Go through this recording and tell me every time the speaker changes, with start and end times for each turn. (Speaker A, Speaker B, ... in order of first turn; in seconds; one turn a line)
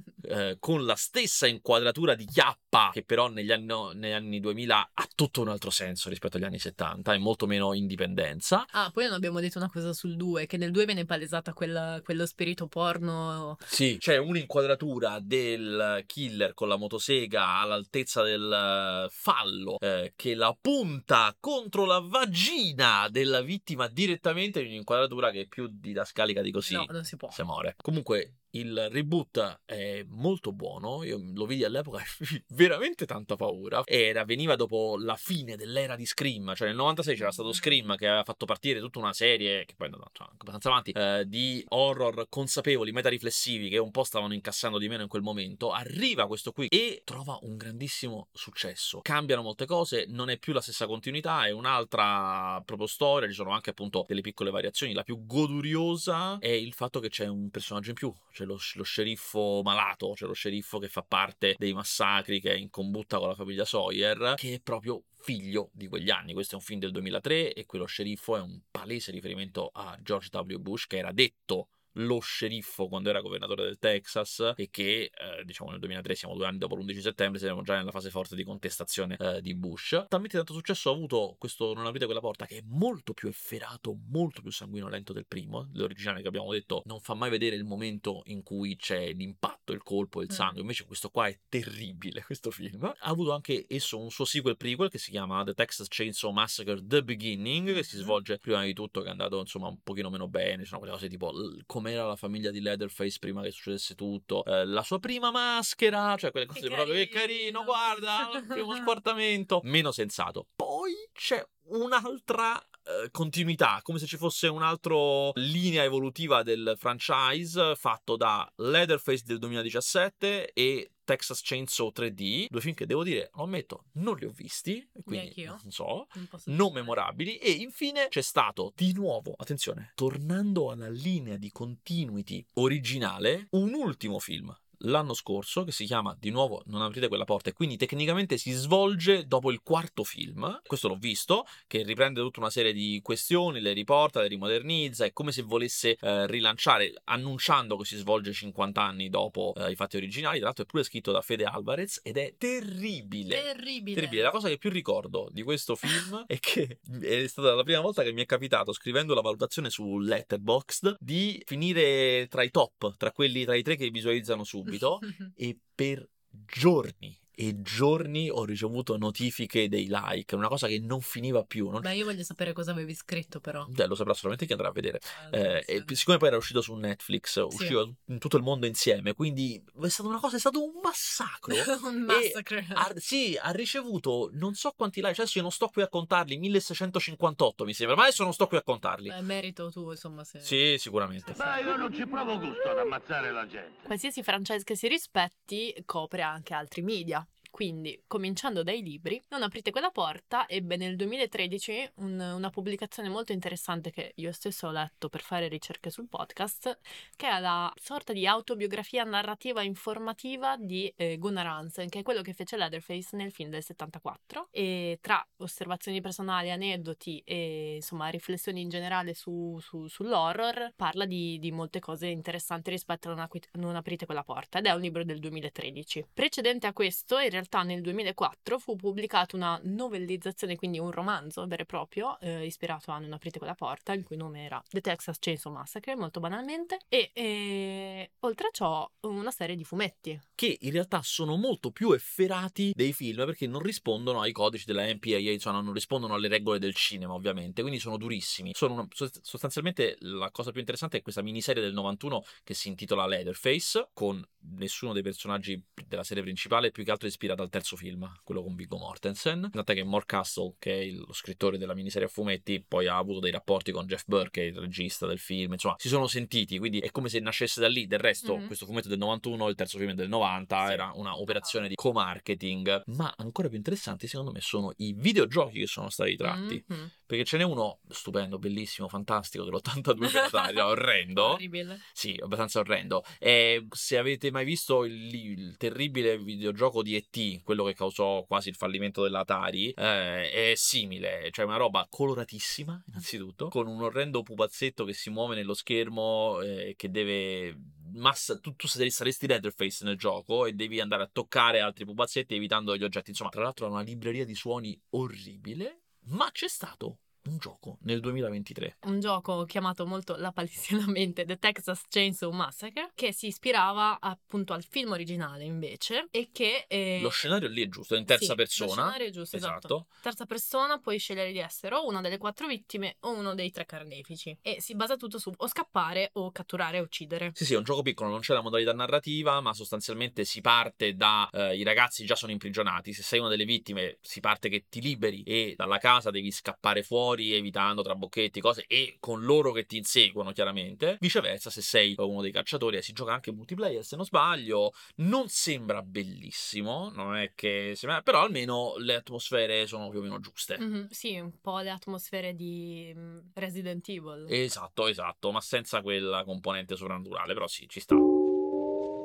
Speaker A: 0.2-8.7
Speaker B: 8.7-13.7
Speaker A: 13.7-172.0
Speaker B: 26.6-27.4
Speaker B: 37.2-37.7
Speaker B: 90.3-90.6
Speaker B: 97.7-98.2
Speaker B: 106.5-108.8
Speaker B: 125.1-125.6
Speaker B: 126.1-127.0
Speaker B: 153.3-154.3
Speaker B: 171.8-173.7
Speaker A: 173.7-189.2
Speaker B: 175.1-176.0
Speaker B: 177.5-177.8
Speaker B: 181.5-182.9
Speaker B: 189.1-190.6
Speaker A: 190.4-191.4
Speaker B: 191.3-191.6
Speaker C: 191.3-193.8
Speaker B: 193.8-240.2
Speaker A: 240.4-308.8
Speaker B: 268.2-268.5
Speaker B: 270.6-271.6
Speaker B: 276.2-276.9
Speaker B: 280.0-281.8
Speaker B: 308.8-317.3
Speaker A: 317.0-319.9
Speaker B: 318.1-327.4
Speaker A: 327.4-350.6
Speaker B: 350.6-354.3
Speaker A: 354.3-358.0